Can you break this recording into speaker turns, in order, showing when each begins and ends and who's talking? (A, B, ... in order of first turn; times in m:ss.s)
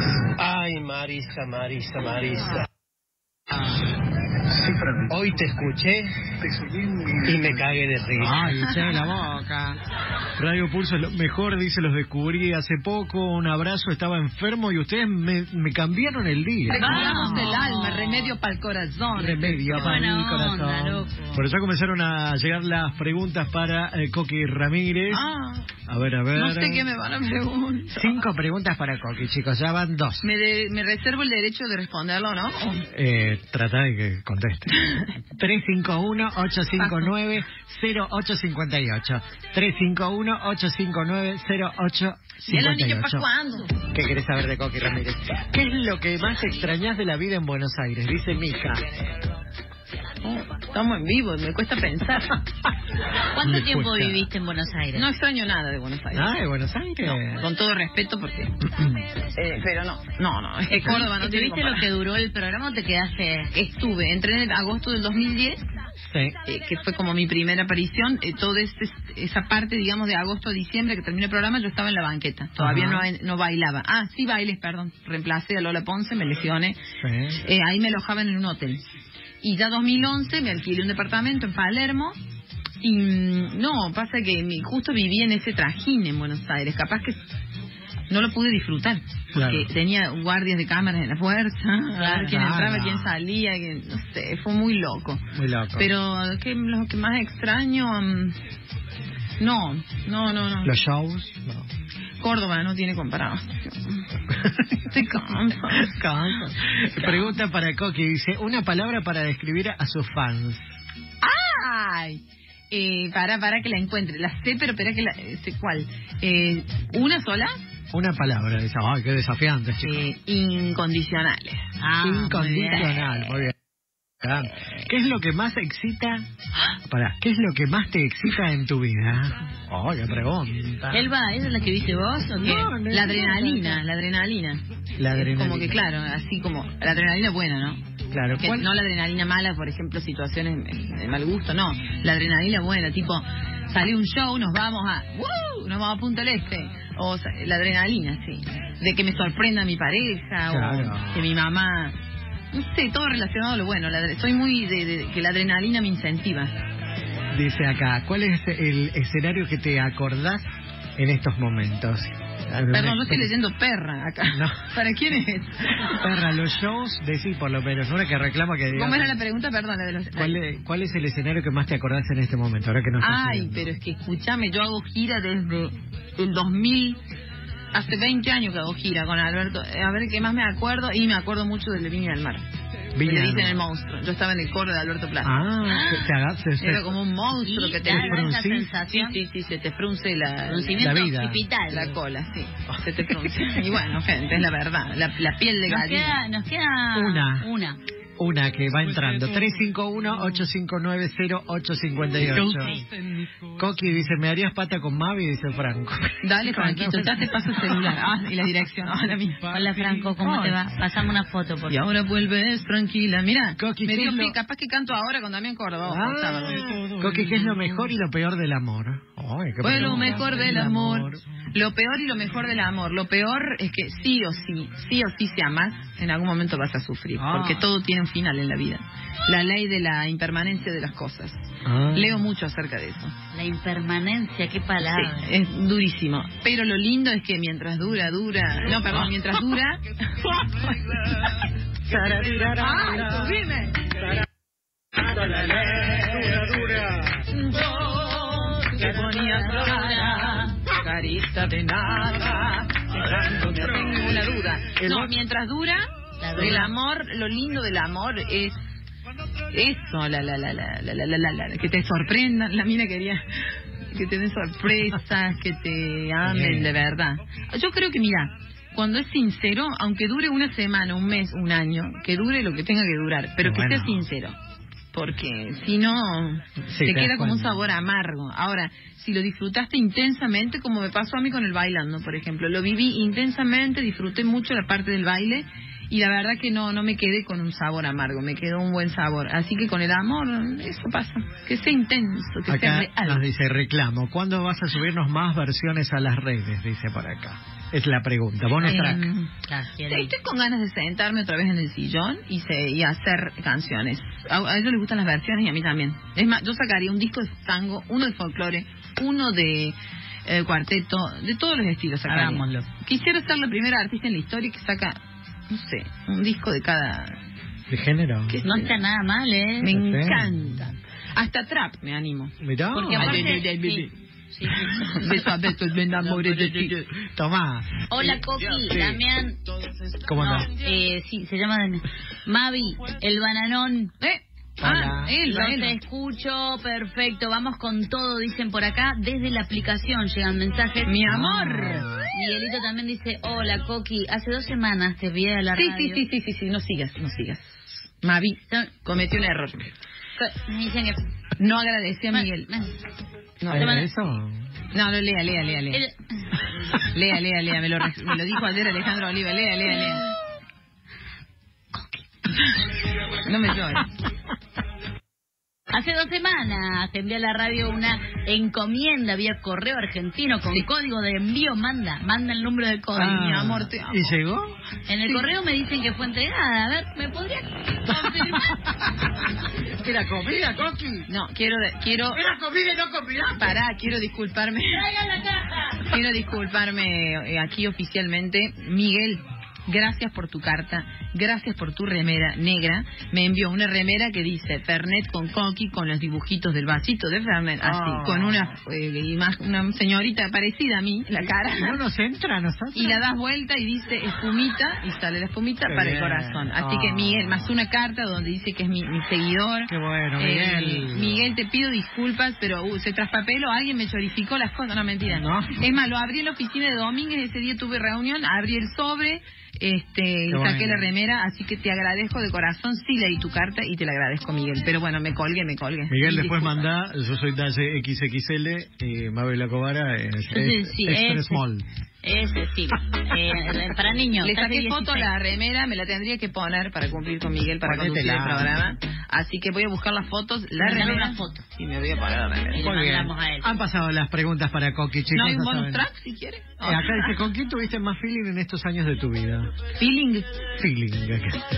0:00.3-0:02.6 A
0:04.5-0:08.4 A
0:05.2-0:06.0 B
0:07.2-0:09.8 B
0:08.6-0:08.8 C
0:10.4-0:17.6 B
0:16.7-0:20.0 C
0:16.7-0:18.4 D
0:19.1-0:25.2 B
0:19.7-0:21.3 D
0:25.1-0:25.7 C
0:25.9-0:26.9 B
0:26.3-0:28.2 C
0:27.9-0:30.2 B
0:30.2-0:32.9 C
0:32.9-0:34.8 B
0:34.7-0:35.1 C
0:35.3-0:43.2 B
0:36.8-0:37.1 C
0:42.4-0:43.8 C
0:43.9-0:48.9 B
0:50.2-0:52.4 C
0:53.3-0:55.1 D
0:53.4-0:54.3 B
0:54.9-0:56.4 C
0:56.1-0:57.5 B
0:57.0-1:01.8 C
1:00.7-1:03.5 D
1:03.5-1:05.6 C
1:06.1-1:06.4 B
1:06.4-1:16.8 C
1:12.6-1:13.1 B
1:17.0-1:17.4 B
1:17.4-1:18.8 C
1:19.4-1:22.1 C
1:22.8-1:27.2 C
1:28.1-1:35.2 C
1:29.3-1:29.7 B
1:32.0-1:32.3 D
1:32.2-1:33.1 B
1:35.3-1:35.9 B
1:35.8-1:38.4 C
1:39.4-1:40.7 C
1:40.6-1:41.7 B
1:42.2-1:44.0 C
1:44.3-1:45.0 B
1:44.8-1:46.0 C
1:45.7-1:50.6 B
1:47.0-1:47.3 C
1:51.2-1:57.6 C
1:57.9-2:00.0 B
1:59.8-2:01.7 C
2:01.8-2:02.9 D
2:02.0-2:03.5 B
2:02.4-2:03.5 C
2:04.2-2:06.2 B
2:04.4-2:04.9 C
2:06.8-2:11.1 B
2:10.9-2:12.7 D
2:12.4-2:13.8 B
2:12.8-2:17.8 C
2:15.0-2:15.8 B
2:18.1-2:18.7 B
2:18.4-2:32.0 C
2:30.5-2:31.2 B
2:32.5-2:36.5 C
2:37.3-2:40.4 B
2:41.0-2:43.3 B
2:42.7-2:46.1 C
2:44.3-2:44.6 B
2:45.8-2:49.1 B
2:48.7-2:50.4 C
2:50.2-2:53.6 B
2:53.0-2:57.0 C
2:57.7-3:02.4 C
3:02.9-3:03.6 B
3:03.0-3:05.8 C
3:05.2-3:06.9 B
3:05.7-3:06.1 D
3:06.6-3:08.3 C
3:07.4-3:09.2 D
3:07.8-3:08.7 B
3:08.9-3:10.9 C
3:10.4-3:12.0 D
3:10.8-3:11.4 B
3:11.7-3:16.2 C
3:15.7-3:17.8 D
3:16.9-3:17.5 B
3:18.2-3:22.8 B
3:22.2-3:22.9 D
3:23.6-3:27.9 B
3:26.2-3:29.7 C
3:29.5-3:31.8 D
3:30.2-3:30.6 B
3:31.7-3:37.4 C
3:33.6-3:34.3 B
3:35.8-3:41.2 B
3:39.6-3:53.1 C
3:47.2-3:47.7 B
3:51.6-3:52.2 B
3:53.3-3:55.3 D
3:54.8-4:00.3 C
4:00.3-4:00.6 B
4:01.8-4:03.5 B
4:02.6-4:03.9 C
4:05.1-4:07.1 B
4:05.3-4:06.2 C
4:07.3-4:18.6 C
4:09.0-4:10.5 D
4:14.8-4:15.2 B
4:16.2-4:16.7 D
4:19.5-4:23.2 C
4:23.9-4:34.3 C
4:26.2-4:26.8 B
4:33.4-4:34.0 B
4:34.9-4:53.2 C
4:36.7-4:37.6 B
4:52.5-4:59.0 B
4:58.6-5:00.1 D
4:58.6-4:59.3 C
4:59.8-5:15.0 C
5:12.0-5:12.7 D
5:15.5-5:17.2 C
5:17.7-5:18.4 B
5:18.3-5:18.8 C
5:18.4-5:19.7 D
5:19.6-5:23.9 C
5:19.7-5:20.3 B
5:22.4-5:23.4 B
5:22.7-5:25.3 D
5:24.5-5:26.8 C
5:25.9-5:26.7 D
5:26.8-5:28.2 B
5:27.9-5:33.9 D
5:28.7-5:29.0 B
5:30.0-5:30.5 B
5:34.0-5:35.8 C
5:34.6-5:35.1 B
5:35.2-5:41.2 D
5:40.8-5:41.9 C
5:41.0-5:42.1 B
5:42.1-5:46.0 D
5:45.5-5:49.7 C
5:50.2-5:51.0 D
5:51.4-5:52.5 C
5:52.1-5:52.7 D
5:53.4-5:53.8 C
5:53.5-5:53.9 D
5:53.5-5:54.5 B
5:54.7-5:55.8 C
5:56.6-6:00.0 C
6:03.1-6:03.9 C
6:05.7-6:13.3 D
6:12.9-6:14.6 B
6:13.0-6:14.2 C
6:14.9-6:18.6 D
6:17.9-6:19.0 B
6:19.6-6:21.1 B
6:21.1-6:22.2 C
6:22.1-6:23.6 B
6:23.3-6:24.8 C
6:24.7-6:25.8 D
6:25.8-6:41.8 C
6:37.6-6:38.5 B
6:41.2-6:43.0 B
6:42.7-7:06.7 C
6:45.6-6:47.5 B
6:49.7-6:51.3 B
6:55.1-6:55.6 B
7:00.3-7:00.9 B
7:05.9-7:11.6 B
7:10.3-7:11.4 D
7:12.0-7:15.1 D
7:14.2-7:22.7 C
7:17.6-7:18.6 B
7:20.6-7:21.4 D
7:22.5-7:23.5 D
7:22.6-7:25.8 B
7:25.1-7:27.3 C
7:26.6-7:29.5 B
7:29.8-7:30.3 C
7:30.5-7:31.4 B